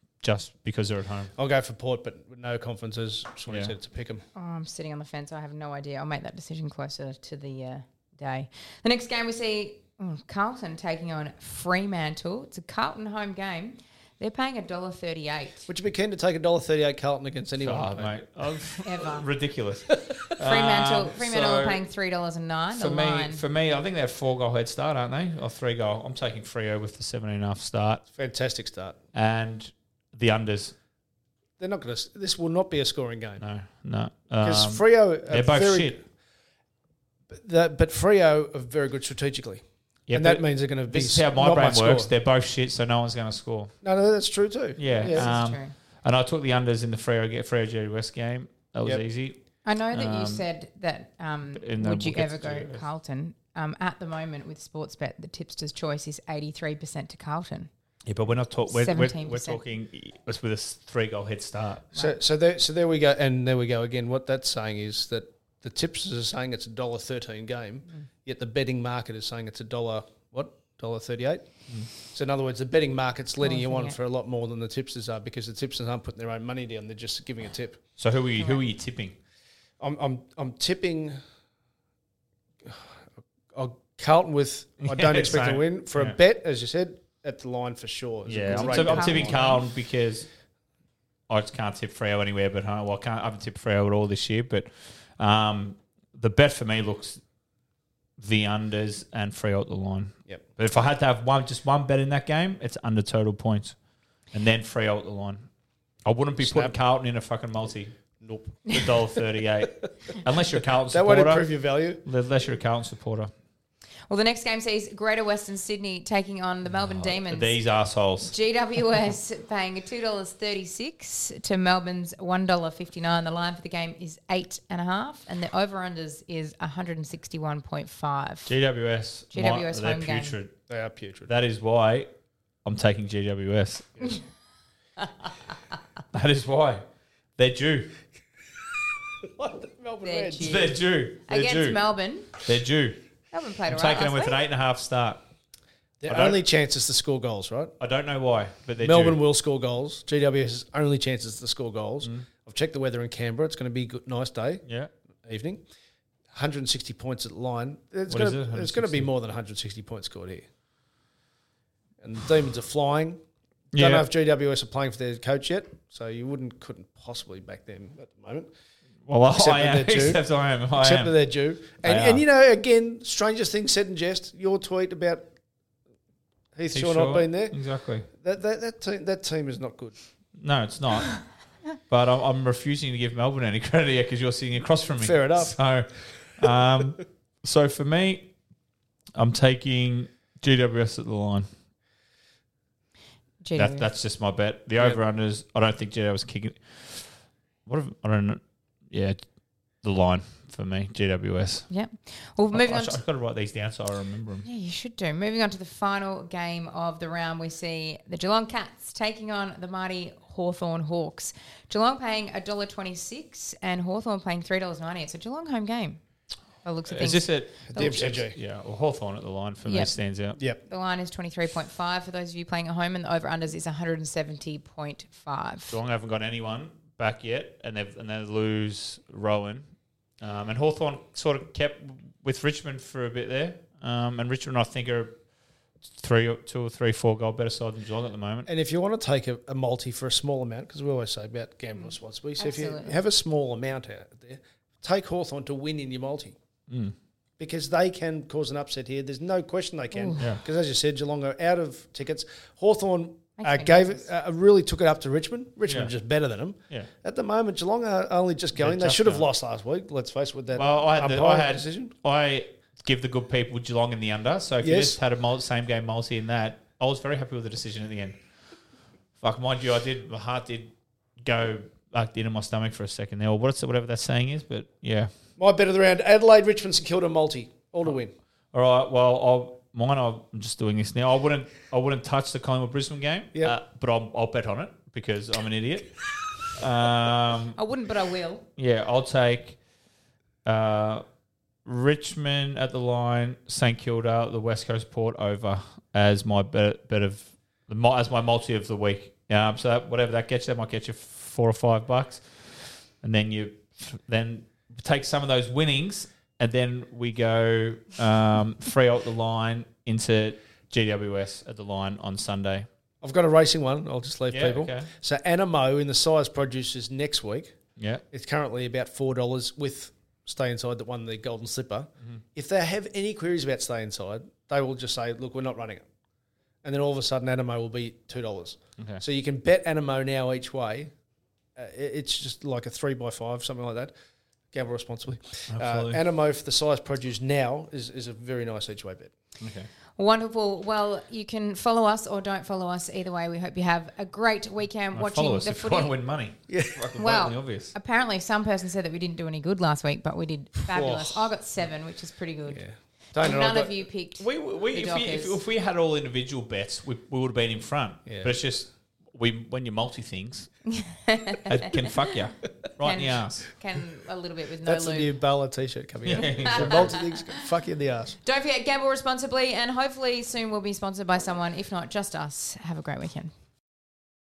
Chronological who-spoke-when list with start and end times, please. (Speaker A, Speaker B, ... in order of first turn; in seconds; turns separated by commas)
Speaker A: 0.2-1.3, Speaker B: 1.4-4.2, Speaker A: 3.5-3.7, Speaker C: 4.3-15.7, Speaker B: 15.7-18.2, Speaker A: 17.6-21.8, Speaker C: 18.8-19.2, Speaker C: 20.4-23.4, Speaker A: 22.7-28.0, Speaker B: 28.1-28.9, Speaker A: 29.1-30.7, Speaker B: 31.6-33.4, Speaker A: 33.4-36.0, Speaker B: 34.4-36.0, Speaker B: 37.3-39.6, Speaker A: 40.1-43.8, Speaker B: 40.1-42.1, Speaker B: 43.8-45.3, Speaker A: 44.8-49.4, Speaker C: 44.8-45.7, Speaker C: 49.6-57.7, Speaker A: 49.9-50.4, Speaker A: 51.5-52.8, Speaker A: 58.0-62.0, Speaker C: 58.7-59.6, Speaker B: 62.0-77.8, Speaker C: 73.4-74.0, Speaker A: 78.0-79.2, Speaker C: 78.4-78.6, Speaker B: 79.8-81.2, Speaker B: 82.6-82.9, Speaker B: 83.5-89.5, Speaker A: 84.8-86.2, Speaker A: 88.2-90.3, Speaker C: 88.3-89.6, Speaker A: 91.3-97.2, Speaker A: 98.2-103.8, Speaker A: 104.3-105.5, Speaker A: 106.0-113.3, Speaker B: 106.4-106.7, Speaker B: 108.2-108.5, Speaker B: 110.9-112.0, Speaker C: 114.1-128.5, Speaker A: 116.7-118.3, Speaker A: 128.4-130.5, Speaker C: 129.3-130.4, Speaker B: 130.7-131.3, Speaker A: 131.2-132.1, Speaker A: 132.6-134.2, Speaker A: 136.1-136.8, Speaker A: 137.3-137.9, Speaker B: 139.3-140.6, Speaker C: 140.0-142.3, Speaker A: 140.4-141.8, Speaker A: 142.4-143.0, Speaker C: 143.3-144.4, Speaker A: 143.7-145.2, Speaker B: 146.0-147.7, Speaker A: 146.1-146.4, Speaker A: 147.8-149.2, Speaker B: 148.8-154.6, Speaker A: 154.6-154.9, Speaker B: 155.2-155.6, Speaker B: 156.3-160.4, Speaker A: 158.1-159.1, Speaker B: 162.0-163.2, Speaker A: 163.7-164.1, Speaker B: 163.7-168.5, Speaker A: 169.1-172.2, Speaker B: 169.3-175.3, Speaker B: 176.5-177.6, Speaker A: 176.7-178.1, Speaker B: 178.1-179.9, Speaker A: 180.4-181.3, Speaker A: 181.9-188.3, Speaker B: 185.0-185.6, Speaker A: 189.2-191.5, Speaker C: 193.4-193.9, Speaker A: 193.5-199.2, Speaker A: 199.8-201.7, Speaker C: 201.7-203.0, Speaker A: 202.5-204.4, Speaker C: 204.4-216.0, Speaker C: 216.6-217.3, Speaker A: 216.9-220.4, Speaker B: 217.7-218.4, Speaker C: 219.7-220.0, Speaker C: 220.7-225.8, Speaker A: 225.7-229.7, Speaker A: 230.2-235.2, Speaker A: 235.9-238.5, Speaker B: 238.4-246.3, Speaker C: 241.8-243.0, Speaker A: 246.7-246.9, Speaker B: 247.4-261.9, Speaker C: 249.9-250.3, Speaker C: 253.4-254.1, Speaker A: 255.6-255.9, Speaker A: 258.6-259.3, Speaker A: 260.5-268.2, Speaker B: 264.6-265.0, Speaker A: 269.2-275.1, Speaker B: 275.4-278.1, Speaker A: 278.5-287.6, Speaker C: 287.6-288.4, Speaker A: 288.6-289.6, Speaker A: 290.4-291.0, Speaker A: 291.6-312.7, Speaker B: 313.0-317.5, Speaker A: 314.3-314.9, Speaker A: 317.8-318.0, Speaker B: 318.1-325.8, Speaker B: 326.6-330.9, Speaker B: 331.6-333.9, Speaker B: 334.5-339.1, Speaker A: 335.5-336.0, Speaker A: 339.4-339.7, Speaker C: 340.0-345.9, Speaker A: 344.9-347.7, Speaker B: 346.5-346.9, Speaker C: 346.9-352.6, Speaker A: 350.7-351.3, Speaker B: 352.5-353.8, Speaker C: 353.2-355.4, Speaker A: 354.2-360.6, Speaker B: 358.1-358.4, Speaker C: 360.7-361.7, Speaker A: 361.4-363.5, Speaker C: 362.8-365.1, Speaker B: 364.6-368.2, Speaker A: 366.0-366.9, Speaker C: 366.2-367.2, Speaker C: 368.2-373.3